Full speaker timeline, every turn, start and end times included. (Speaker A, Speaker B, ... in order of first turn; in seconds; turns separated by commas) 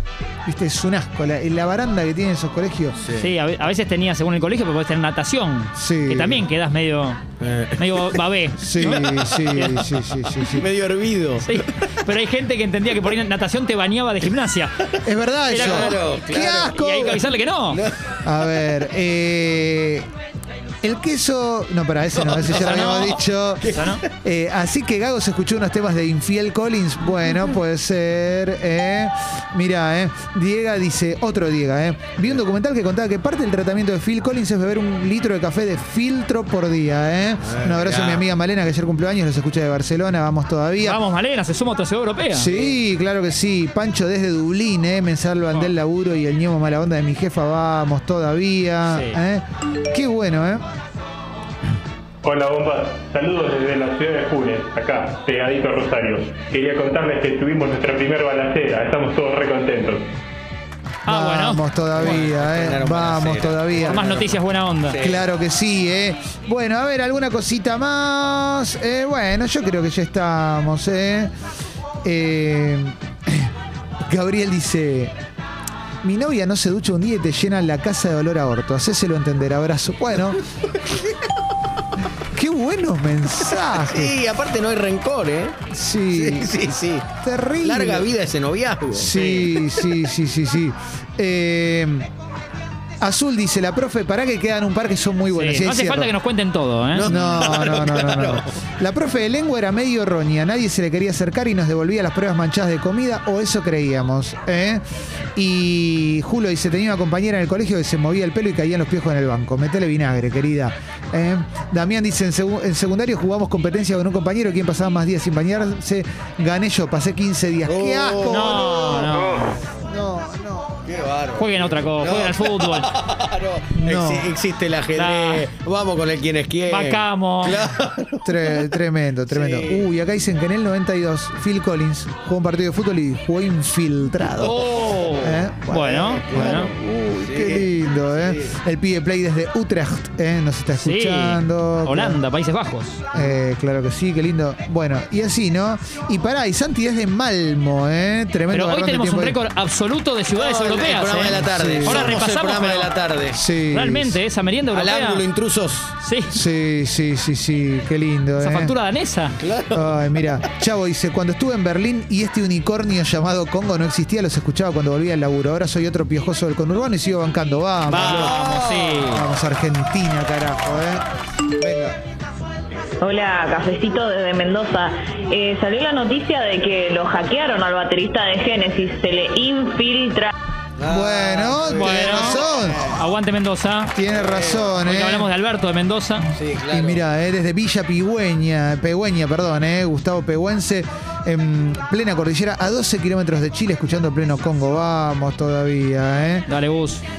Speaker A: 0.5-3.0, Speaker B: 3.0-3.3, Speaker C: 3.1-7.2, Speaker A: 5.8-6.5, Speaker B: 7.4-8.2, Speaker C: 7.8-9.9, Speaker A: 8.6-10.7, Speaker B: 8.8-9.7, Speaker B: 10.4-11.9, Speaker C: 11.4-14.8, Speaker A: 15.0-17.2, Speaker C: 15.5-17.8, Speaker B: 15.5-18.1, Speaker A: 18.2-20.1, Speaker A: 20.8-41.0, Speaker B: 22.1-24.0, Speaker C: 22.5-23.2, Speaker C: 23.7-24.1, Speaker B: 37.4-38.2, Speaker C: 40.8-42.5, Speaker A: 42.3-50.6, Speaker C: 48.9-49.2, Speaker D: 52.2-60.1, Speaker C: 61.1-61.6, Speaker A: 61.1-64.4, Speaker B: 61.9-64.3, Speaker C: 63.8-65.0, Speaker B: 64.9-65.3, Speaker A: 65.0-71.3, Speaker A: 72.0-73.5, Speaker A: 74.1-75.1, Speaker A: 76.0-80.4, Speaker A: 82.3-84.2, Speaker B: 83.4-85.6, Speaker A: 85.7-88.1, Speaker B: 86.1-87.1, Speaker B: 87.6-89.1, Speaker A: 88.9-92.1, Speaker C: 89.1-89.6, Speaker A: 93.0-96.1, Speaker C: 95.3-97.2, Speaker B: 96.9-98.5, Speaker A: 97.0-104.8, Speaker A: 105.3-119.1, Speaker B: 117.7-119.6, Speaker C: 118.3-119.6, Speaker A: 119.8-120.9, Speaker B: 120.9-128.6, Speaker C: 121.3-122.9, Speaker A: 123.8-124.3, Speaker C: 125.0-125.5, Speaker C: 126.7-127.6, Speaker A: 128.2-142.2, Speaker B: 129.3-129.9, Speaker B: 134.4-135.5, Speaker C: 135.7-136.7, Speaker B: 136.1-138.5, Speaker C: 140.8-143.0, Speaker A: 143.1-149.4, Speaker C: 148.5-152.9, Speaker B: 150.3-153.4, Speaker A: 151.4-152.2, Speaker A: 153.3-154.2, Speaker C: 153.7-155.2, Speaker B: 154.7-155.9, Speaker C: 156.0-156.4, Speaker A: 156.3-158.7, Speaker C: 158.4-159.4, Speaker B: 159.4-159.9, Speaker A: 159.7-168.4, Speaker B: 167.9-169.1, Speaker C: 167.9-169.2, Speaker A: 169.1-171.0, Speaker A: 171.6-172.0, Speaker E: 173.0-180.3, Speaker B: 180.8-183.0, Speaker A: 180.9-182.9, Speaker C: 181.7-184.0, Speaker A: 183.9-185.3, Speaker B: 184.1-184.8, Speaker C: 184.8-186.3, Speaker B: 186.3-187.1, Speaker A: 186.7-196.5, Speaker C: 196.5-197.0